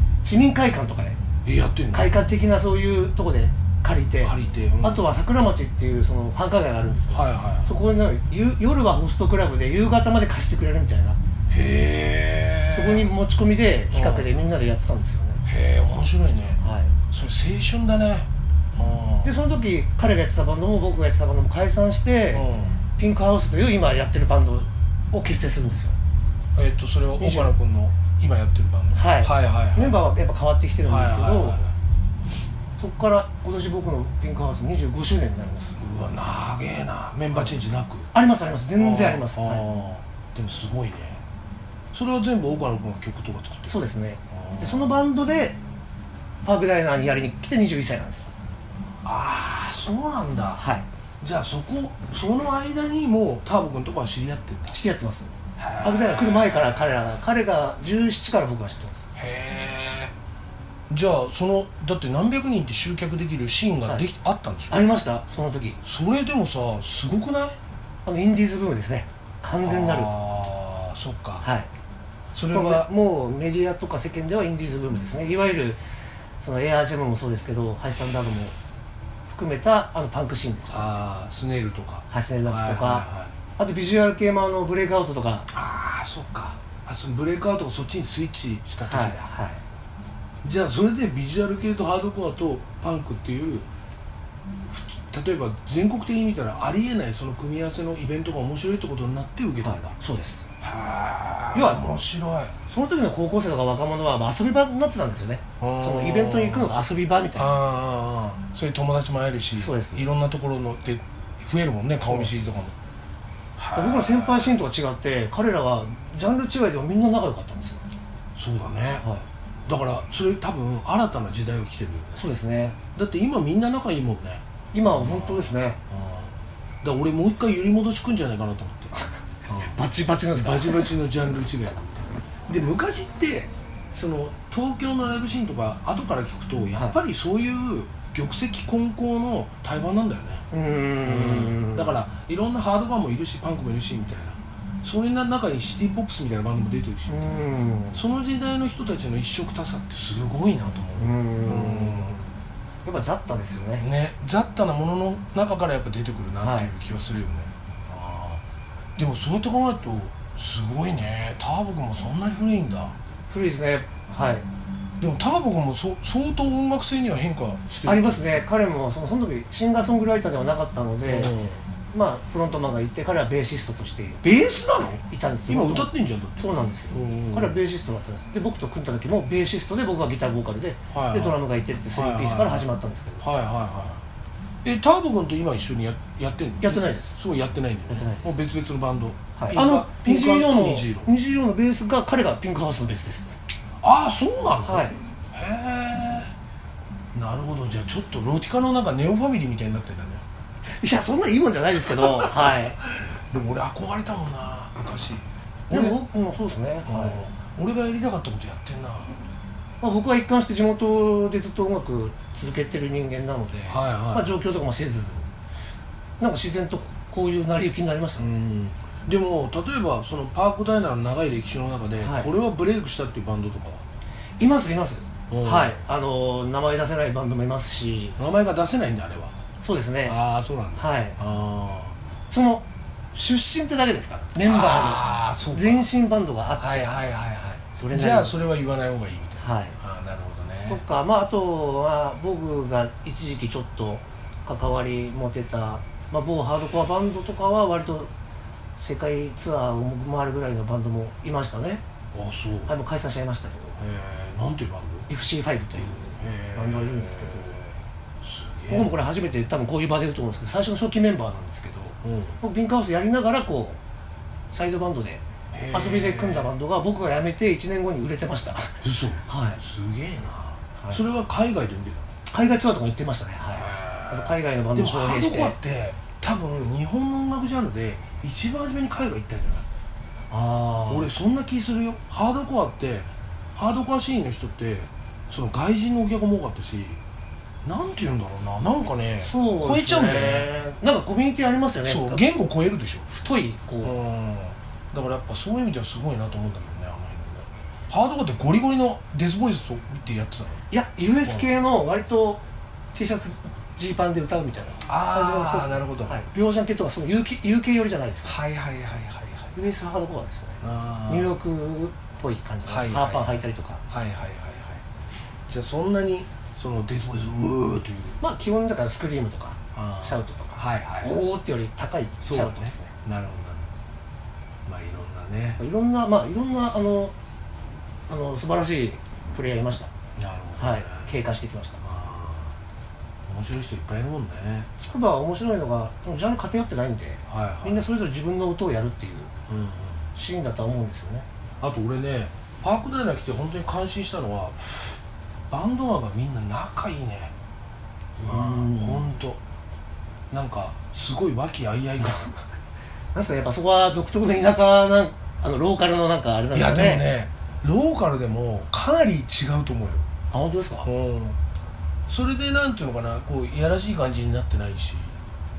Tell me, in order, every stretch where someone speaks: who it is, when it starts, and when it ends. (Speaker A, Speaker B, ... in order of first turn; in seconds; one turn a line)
Speaker A: 0.2-1.2
Speaker B: 1.4-2.2
Speaker A: 1.9-11.2
Speaker B: 4.2-5.1
Speaker B: 7.1-7.7
Speaker B: 11.5-13.1
Speaker A: 12.7-15.4
Speaker B: 13.9-14.3
Speaker B: 15.4-16.6
Speaker A: 16.6-16.9
Speaker B: 17.1-19.3
Speaker A: 19.2-25.9
Speaker B: 22.3-22.8
Speaker B: 26.5-30.0
Speaker A: 27.2-27.5
Speaker A: 28.9-31.7
Speaker B: 30.8-31.7
Speaker A: 32.8-35.8
Speaker B: 35.8-38.1
Speaker A: 37.3-37.6
Speaker A: 38.1-39.6
Speaker B: 38.8-41.2
Speaker B: 41.9-43.8
Speaker A: 43.7-45.6
Speaker B: 44.3-45.0
Speaker A: 46.4-48.3
Speaker B: 49.0-50.6
Speaker A: 50.6-50.9
Speaker B: 51.2-54.8
Speaker A: 54.7-59.0
Speaker B: 55.6-57.1
Speaker B: 59.1-60.1
Speaker B: 60.9-64.8
Speaker A: 64.7-65.8
Speaker B: 65.8-67.6
Speaker A: 68.0-70.1
Speaker B: 69.6-71.5
Speaker A: 71.4-71.7
Speaker B: 72.3-72.9
Speaker A: 72.5-75.8
Speaker A: 76.4-78.5
Speaker A: 79.3-80.9
Speaker B: 80.7-83.3
Speaker A: 82.1-83.0
Speaker A: 83.6-85.5
Speaker B: 85.5-89.3
Speaker A: 88.8-89.6
Speaker B: 90.4-93.7
Speaker B: 94.6-100.0
Speaker A: 99.6-100.4
Speaker B: 100.6-102.5
Speaker A: 101.5-101.8
Speaker A: 102.7-107.5
Speaker B: 105.6-106.7
Speaker B: 107.3-112.7
Speaker A: 109.5-110.0
Speaker B: 113.6-114.6
Speaker A: 113.7-117.9
Speaker B: 118.3-119.0
Speaker B: 119.7-122.3
Speaker A: 122.2-122.8
Speaker B: 122.9-129.8
Speaker A: 124.7-125.8
Speaker A: 129.6-130.9
Speaker B: 130.3-140.4
Speaker A: 140.5-142.0
Speaker B: 141.0-152.2
Speaker A: 147.1-148.0
Speaker A: 151.0-152.2
Speaker A: 152.8-153.8
Speaker B: 153.8-158.4
Speaker A: 156.4-156.7
Speaker B: 158.9-162.9
Speaker A: 163.3-164.5
Speaker B: 165.0-168.4
Speaker A: 167.8-171.3
Speaker B: 171.0-171.6
Speaker A: 171.9-174.2
Speaker B: 174.2-177.5
Speaker A: 175.1-183.2
Speaker B: 180.9-181.4
Speaker B: 181.9-182.7
Speaker B: 183.2-184.0
Speaker B: 184.6-191.1
Speaker A: 186.6-187.1
Speaker A: 187.9-188.3
Speaker A: 189.4-193.4
Speaker B: 193.8-196.3
Speaker A: 194.6-195.0
Speaker B: 197.1-200.2
Speaker A: 200.8-202.8
Speaker B: 202.0-206.0
Speaker A: 205.7-207.3
Speaker B: 206.8-209.1
Speaker A: 209.8-215.2
Speaker B: 213.7-214.3
Speaker A: 216.2-218.3
Speaker B: 218.2-223.8
Speaker A: 222.0-222.3
Speaker A: 224.4-228.2
Speaker B: 225.3-225.8
Speaker B: 228.2-229.3
Speaker A: 229.6-230.2
Speaker B: 230.1-231.9
Speaker A: 230.8-231.2
Speaker A: 232.3-236.9
Speaker B: 234.3-235.9
Speaker B: 236.5-240.8
Speaker A: 237.7-238.3
Speaker A: 239.4-239.8
Speaker A: 240.7-248.1
Speaker A: 248.7-251.8
Speaker B: 252.1-252.7
Speaker A: 252.7-253.8
Speaker B: 253.8-255.1
Speaker A: 255.1-257.6
Speaker B: 255.8-258.9
Speaker A: 258.7-263.8
Speaker B: 262.0-262.4
Speaker A: 264.5-269.6
Speaker B: 265.5-266.5
Speaker B: 268.8-272.1
Speaker A: 272.3-275.6
Speaker B: 273.5-279.6
Speaker A: 280.3-281.1
Speaker B: 280.9-287.0
Speaker B: 287.6-290.5
Speaker A: 289.2-292.2
Speaker B: 291.8-293.1
Speaker A: 293.1-294.0
Speaker B: 293.8-300.6
Speaker A: 300.7-302.4
Speaker A: 302.9-308.4
Speaker B: 304.9-306.2
Speaker B: 308.2-309.6
Speaker A: 309.6-313.8
Speaker B: 310.6-311.4
Speaker B: 312.6-314.8
Speaker B: 315.5-318.2
Speaker A: 318.2-322.9
Speaker B: 319.7-321.2
Speaker B: 322.2-323.7
Speaker B: 324.6-325.6
Speaker A: 325.6-327.1
Speaker A: 328.1-329.9
Speaker B: 330.2-331.1
Speaker A: 330.6-331.8
Speaker B: 331.8-332.5
Speaker B: 333.3-334.7
Speaker A: 334.8-339.3
Speaker B: 337.3-337.9
Speaker B: 339.5-340.1
Speaker A: 340.1-341.3
Speaker B: 341.6-345.0
Speaker B: 345.5-347.3
Speaker A: 348.2-349.2
Speaker B: 348.2-349.4
Speaker B: 350.3-352.4
Speaker A: 352.0-352.3
Speaker A: 353.1-357.0
Speaker B: 356.5-360.0
Speaker A: 360.3-360.9
Speaker B: 360.8-361.4
Speaker B: 362.1-365.2